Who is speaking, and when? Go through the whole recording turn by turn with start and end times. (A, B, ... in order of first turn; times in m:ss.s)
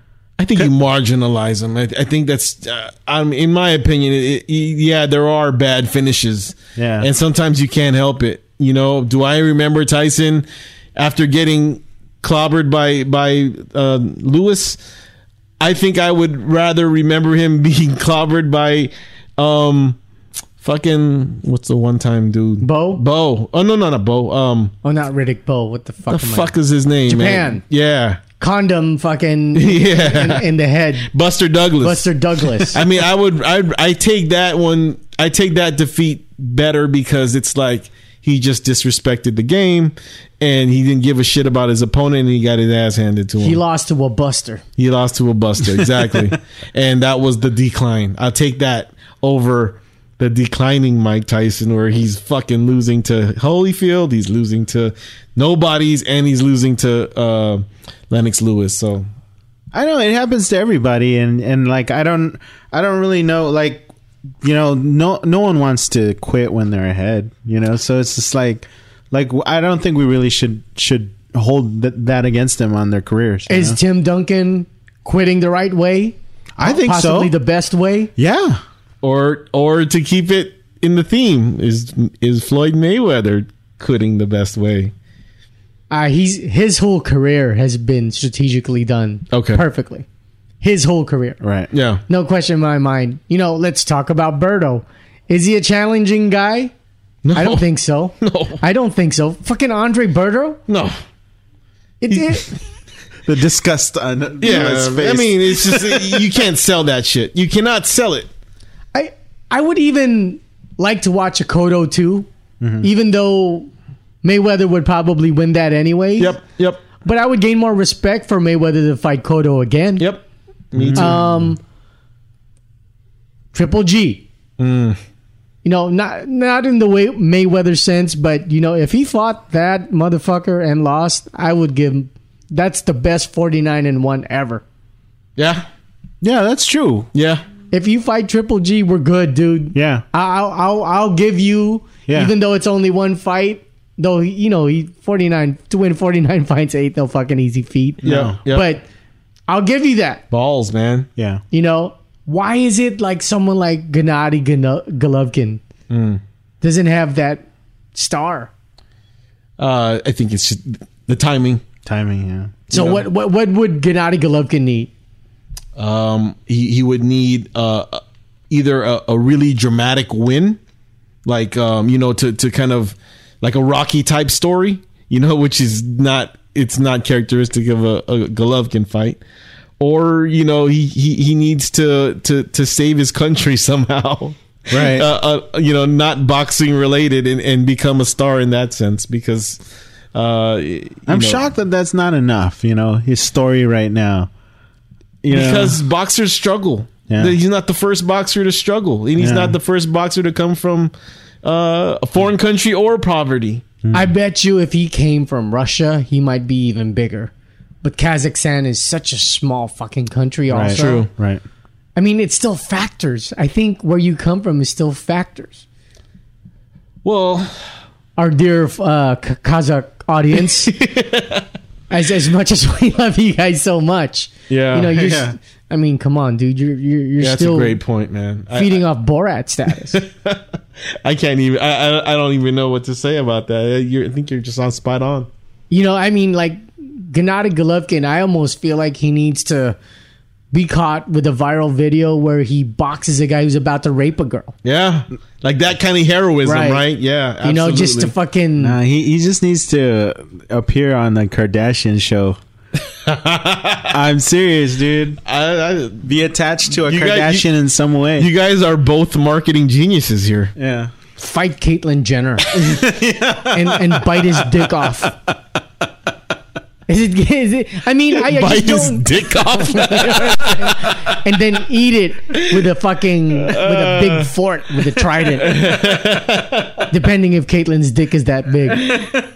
0:00.4-0:14.8 A
0:06.8-0:07.1 B
0:15.6-0:20.0 A
0:20.6-0:24.7 A
0:22.6-0:23.0 C
0:24.8-0:26.5 C
0:26.1-0:28.2 A
0:27.1-0:27.6 C
0:28.4-0:31.1 C
0:29.5-0:30.4 A
0:31.1-0:32.1 A
0:31.8-0:32.8 C
0:32.6-0:43.6 A
0:43.4-0:44.6 C
0:44.8-0:59.1 A
0:45.7-0:46.1 B
0:59.7-1:03.9 B
1:04.4-1:13.8 B
1:13.5-1:18.1 C
1:16.6-1:17.3 B
1:18.2-1:18.6 B
1:19.0-1:24.9 A
1:25.9-1:30.1 C
1:29.3-1:29.6 A
1:30.6-1:31.4 C
1:31.4-1:31.7 B
1:31.7-1:32.0 A
1:32.1-1:36.7 C
1:37.2-1:37.6 A
1:37.3-1:40.6 C
1:38.2-1:38.6 A
1:40.7-1:41.0 A
1:42.0-1:42.5 C
1:42.1-1:42.5 A
1:43.2-1:46.3 B
1:44.4-1:48.3 A
1:48.9-1:52.3 C
1:52.6-1:52.9 B
1:52.8-1:53.7 C
1:54.2-1:56.4 C
1:56.2-1:56.9 A
1:57.0-2:00.1 C
2:00.7-2:01.2 A
2:00.7-2:01.2 B
2:00.9-2:01.6 C
2:03.5-2:04.2 C
2:04.6-2:05.0 A
2:05.6-2:14.6 C
2:15.4-2:15.7 A
2:16.2-2:17.1 B
2:17.1-2:17.4 A
2:17.7-2:28.9 C
2:19.7-2:20.0 B
2:22.1-2:22.3 B
2:28.0-2:28.4 B
2:28.0-2:28.7 A
2:29.5-2:30.2 C
2:30.3-2:31.1 A
2:31.2-2:31.4 B
2:31.5-2:35.6 C
2:35.9-2:36.2 A
2:36.6-2:38.5 C
2:39.6-2:41.6 A
2:41.8-2:42.6 B
2:42.7-2:44.9 C
2:42.7-2:43.1 A
2:45.8-2:50.6 A
2:51.2-2:59.2 A
2:59.8-3:09.6 A
3:04.7-3:05.1 B
3:10.1-3:11.4 A
3:11.1-3:14.3 B
3:15.2-3:15.8 B
3:15.3-3:23.6 A
3:17.1-3:17.4 B
3:19.2-3:19.6 B
3:23.8-3:24.1 B
3:23.9-3:27.3 C
3:27.8-3:31.1 C
3:30.5-3:31.4 B
3:30.7-3:31.1 A
3:32.0-3:35.6 C
3:37.0-3:37.6 A
3:38.2-3:40.8 C
3:40.7-3:41.4 A
3:41.9-3:47.8 C
3:44.5-3:45.0 A
3:44.9-3:45.4 B
3:47.2-3:48.8 A
3:48.5-3:50.0 C
3:49.9-3:50.4 A
3:51.0-3:55.3 A
3:55.7-3:59.8 C
4:00.5-4:04.5 C
4:04.6-4:08.1 A
4:06.4-4:06.8 C
4:07.4-4:08.8 C
4:08.6-4:12.4 B
4:13.0-4:14.0 A
4:13.9-4:15.2 B
4:15.2-4:16.0 A
4:16.0-4:18.3 B
4:16.7-4:17.5 A
4:18.2-4:20.5 A
4:20.6-4:20.9 B
4:21.2-4:22.9 C
4:22.5-4:24.3 B
4:23.4-4:25.2 C
4:26.9-4:35.7 C
4:28.2-4:31.2 A
4:33.4-4:34.2 A
4:35.3-4:36.9 A
4:36.9-4:39.1 C